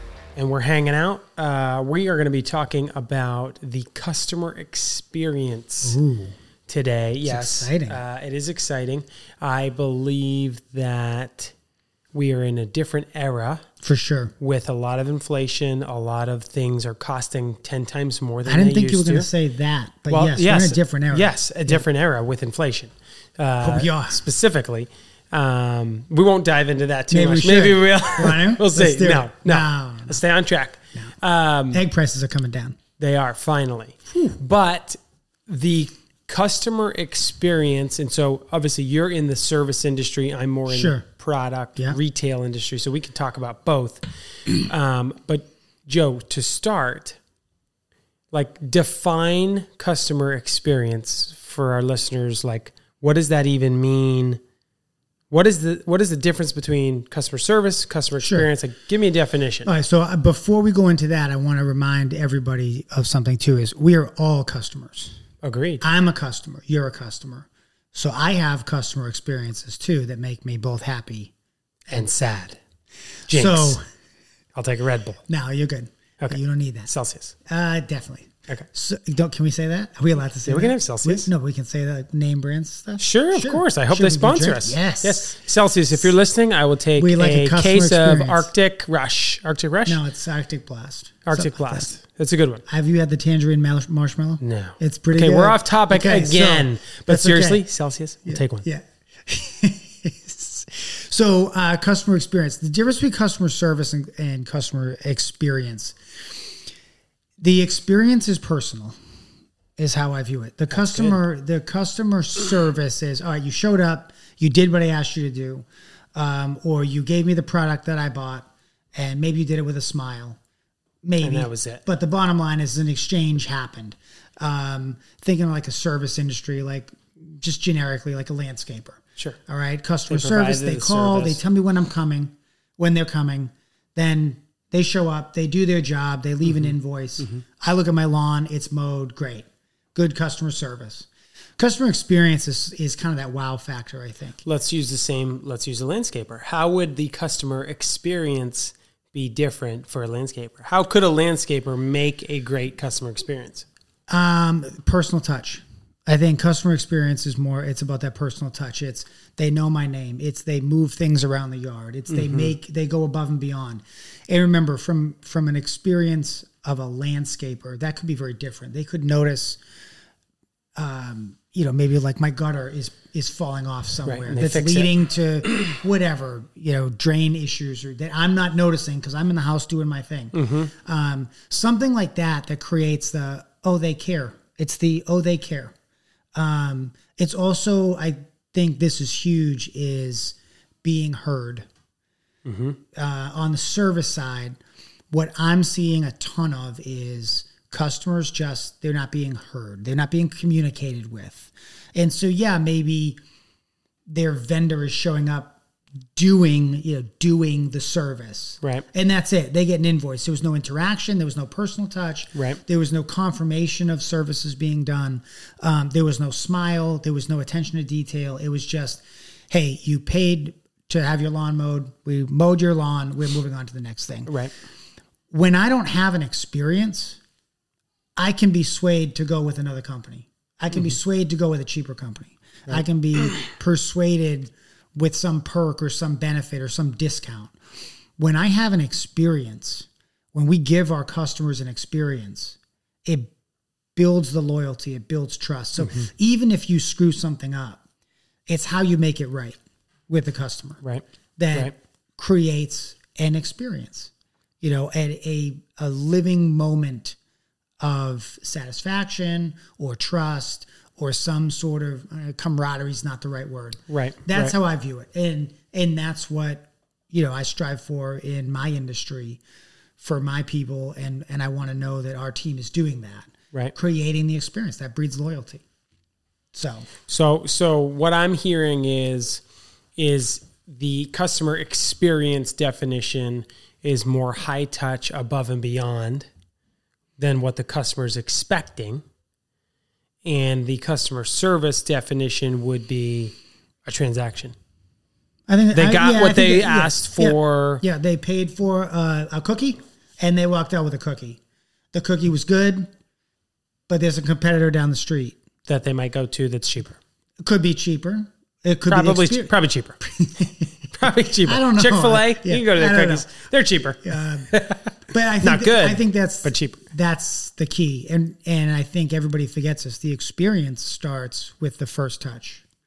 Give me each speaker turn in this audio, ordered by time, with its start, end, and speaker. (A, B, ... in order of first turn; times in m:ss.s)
0:00.4-0:06.0 A
0:05.8-0:06.4 B
0:06.7-0:11.5 A
0:07.2-0:08.0 B
0:12.1-0:13.6 A
0:13.8-0:14.3 B
0:14.4-0:19.3 A
0:18.4-0:21.8 B
0:20.1-0:31.8 A
0:23.6-0:24.2 B
0:27.1-0:30.2 B
0:31.7-0:32.8 B
0:33.0-0:47.2 A
0:34.1-0:34.4 B
0:40.7-0:41.0 B
0:48.3-0:54.4 A
0:55.3-0:59.7 A
0:58.2-0:58.5 B
0:59.6-1:05.2 B
1:05.4-1:05.8 A
1:05.8-1:11.3 B
1:11.9-1:12.6 A
1:13.3-1:13.8 A
1:13.3-1:13.8 B
1:14.6-1:15.2 A
1:15.3-1:16.9 B
1:16.2-1:17.3 A
1:17.5-1:25.3 B
1:20.4-1:21.3 A
1:23.0-1:30.0 A
1:27.0-1:28.5 B
1:29.8-1:31.9 B
1:31.2-1:32.6 A
1:32.7-1:37.6 B
1:34.4-1:38.6 A
1:38.2-1:46.0 B
1:47.4-1:49.0 B
1:49.8-2:00.4 B
1:50.7-1:51.2 A
2:01.0-2:24.4 B
2:01.2-2:01.8 A
2:10.1-2:11.4 A
2:16.4-2:17.4 A
2:24.4-2:33.6 A
2:34.1-2:49.6 B
2:42.1-2:42.5 A
2:50.8-3:05.7 B
2:54.0-2:54.9 A
3:00.3-3:00.7 A
3:06.3-3:11.7 B
3:12.4-3:12.8 A
3:12.9-3:14.6 B
3:15.1-3:23.2 B
3:24.1-3:25.6 B
3:26.1-3:44.3 B
3:28.6-3:28.8 A
3:32.3-3:32.6 A
3:44.3-3:44.5 A
3:45.3-3:47.2 B
3:48.2-3:57.5 B
3:50.7-3:51.0 A
3:52.7-3:53.4 A
3:58.2-4:03.3 B
4:04.0-4:07.8 B
4:05.8-4:06.1 A
4:08.5-4:09.6 B
4:10.1-4:10.8 B
4:10.8-4:11.7 A
4:11.4-4:17.2 B
4:17.8-4:29.4 B
4:23.9-4:24.5 A
4:30.0-4:35.6 B
4:36.5-4:36.9 B
4:37.1-4:39.4 A
4:40.0-4:46.3 A
4:47.2-4:49.0 A
4:50.2-4:54.6 A
4:55.5-5:01.4 B
4:55.7-4:57.8 A
5:01.9-5:02.9 B
5:03.9-5:05.4 B
5:05.6-5:07.0 A
5:07.4-5:10.9 B
5:08.9-5:10.0 A
5:10.9-5:16.8 A
5:11.4-5:13.3 B
5:14.0-5:14.5 B
5:15.1-5:22.6 B